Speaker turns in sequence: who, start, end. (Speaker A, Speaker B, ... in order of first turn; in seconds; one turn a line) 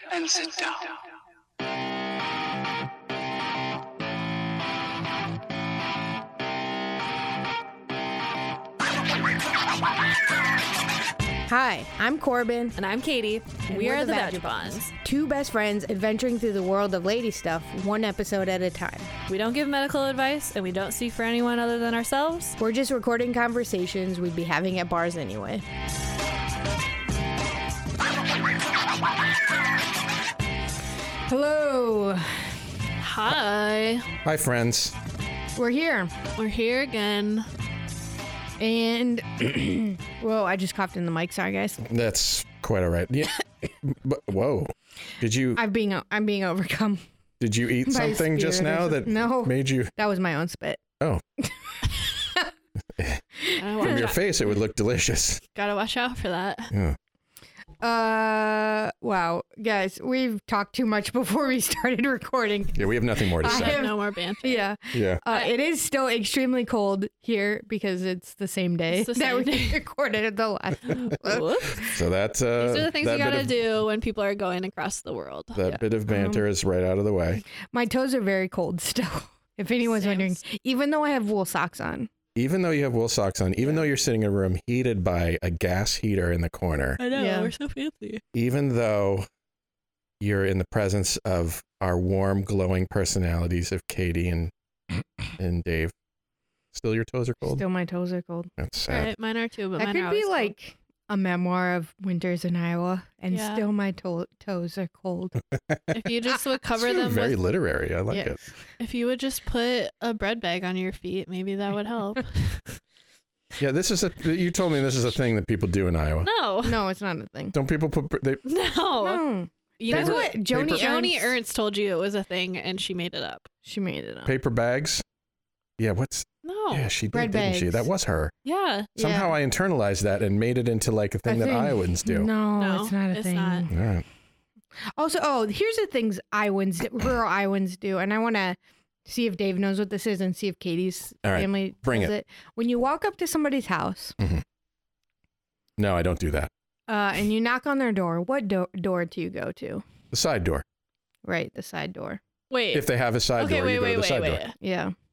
Speaker A: 11.5-12.8
Speaker B: 12.8-14.9
Speaker A: 13.7-19.1
Speaker B: 19.3-22.6
Speaker A: 22.6-25.6
Speaker A: 31.3-32.6
Speaker B: 33.0-34.1
Speaker C: 34.2-35.0
Speaker A: 35.5-36.1
Speaker B: 36.4-37.5
Speaker A: 38.6-41.8
Speaker C: 41.8-45.6
Speaker A: 45.5-47.0
Speaker C: 47.4-49.9
Speaker A: 47.8-50.8
Speaker A: 51.7-52.5
Speaker C: 53.0-53.2
Speaker A: 53.4-54.0
Speaker B: 53.6-54.3
Speaker C: 53.8-55.4
Speaker B: 55.5-56.7
Speaker C: 56.7-57.0
Speaker A: 57.8-72.0
Speaker C: 62.8-63.8
Speaker B: 63.4-64.6
Speaker C: 64.9-65.2
Speaker B: 68.9-69.8
Speaker B: 70.9-71.9
Speaker C: 71.9-73.5
Speaker B: 72.6-75.6
Speaker C: 75.5-77.4
Speaker A: 75.7-76.4
Speaker A: 77.7-82.1
Speaker B: 79.8-80.4
Speaker C: 82.3-87.0
Speaker B: 87.0-88.2
Speaker A: 87.1-87.5
Speaker C: 88.3-89.2
Speaker C: 90.2-94.5
Speaker C: 95.4-95.9
Speaker C: 96.7-97.6
Speaker A: 97.5-98.5
Speaker C: 98.6-99.1
Speaker B: 98.9-100.5
Speaker A: 99.8-105.4
Speaker B: 103.3-103.6
Speaker C: 105.5-105.9
Speaker B: 105.9-107.4
Speaker C: 106.8-108.4
Speaker A: 108.1-108.4
Speaker B: 108.8-112.8
Speaker C: 113.6-116.3
Speaker B: 116.2-116.8
Speaker A: 116.6-117.5
Speaker C: 117.5-118.4
Speaker B: 118.4-119.2
Speaker A: 119.0-121.2
Speaker B: 119.8-123.5
Speaker C: 119.9-121.0
Speaker A: 123.6-124.3
Speaker C: 124.2-125.0
Speaker C: 125.8-128.3
Speaker B: 126.4-126.9
Speaker A: 127.1-127.9
Speaker B: 128.4-128.9
Speaker C: 129.0-132.3
Speaker A: 129.0-129.3
Speaker A: 131.3-133.8
Speaker B: 132.6-133.7
Speaker C: 133.7-134.1
Speaker A: 135.0-144.2
Speaker C: 141.2-142.1
Speaker C: 144.2-144.4
Speaker C: 145.8-146.5
Speaker A: 146.9-149.8
Speaker C: 150.1-150.6
Speaker A: 151.2-152.2
Speaker B: 152.5-154.6
Speaker C: 152.7-154.4
Speaker A: 154.6-154.9